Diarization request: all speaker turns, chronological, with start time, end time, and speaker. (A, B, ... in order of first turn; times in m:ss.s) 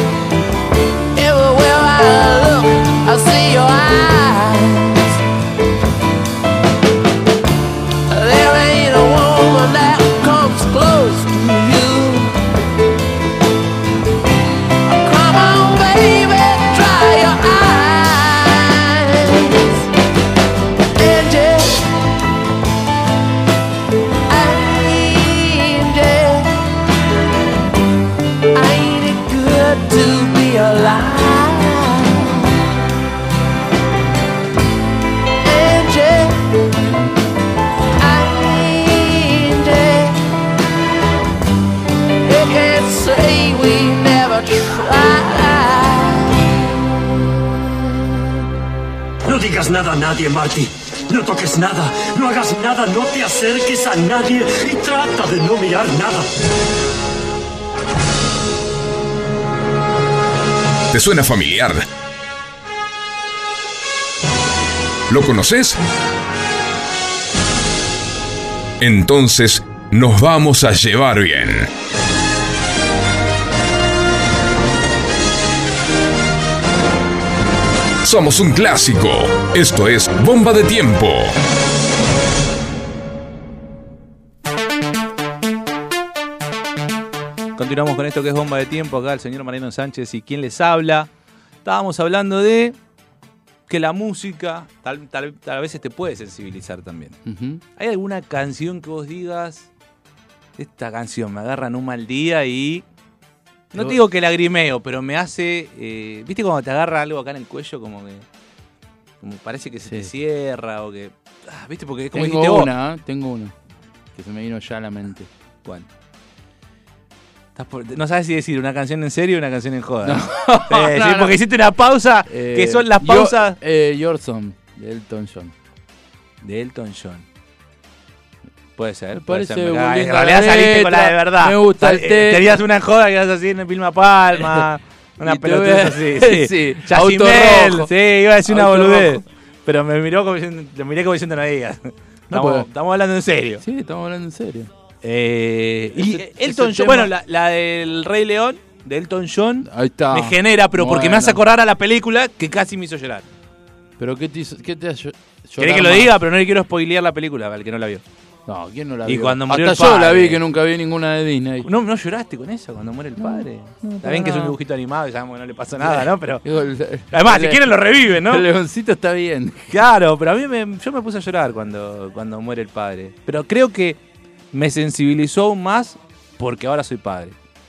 0:01.1-0:05.2 A
0:08.1-0:12.4 A
0:14.9-0:19.9 A
0:21.0-0:21.9 A
0:24.3-0:26.8 A
0:28.5-0:32.7 A
0:35.4-0:36.7 A
0:38.0-0:40.2 A
0:42.2-0:46.5 A
0:47.9-0:48.2 A
0:49.3-0:56.3 B
1:00.9-1:01.9 C
1:05.1-1:05.8 C
1:08.8-1:11.7 C
1:18.0-1:21.4 C
1:27.6-1:31.1 D
1:31.6-1:32.8 D
1:33.7-1:37.2 D
1:37.3-1:37.6 E
1:37.8-1:39.7 D
1:40.6-1:42.8 D
1:43.7-1:48.2 D
1:49.2-1:52.7 D
1:49.9-1:50.1 E
1:52.1-1:53.5 E
1:54.2-1:55.3 E
1:57.6-2:03.6 D
2:00.0-2:01.4 E
2:02.3-2:05.5 E
2:06.4-2:07.2 D
2:08.8-2:23.6 D
2:09.1-2:12.6 E
2:15.2-2:17.9 E
2:18.4-2:19.2 E
2:22.3-2:22.6 E
2:23.6-2:24.7 E
2:25.0-2:33.2 D
2:26.0-2:27.1 E
2:29.6-2:31.4 E
2:34.0-2:36.1 E
2:35.6-2:38.0 D
2:38.5-2:41.7 E
2:39.0-2:40.4 D
2:41.6-2:46.4 D
2:43.2-2:44.6 E
2:45.8-2:49.8 E
2:47.1-2:48.5 D
2:49.7-2:54.0 D
2:54.5-2:57.3 D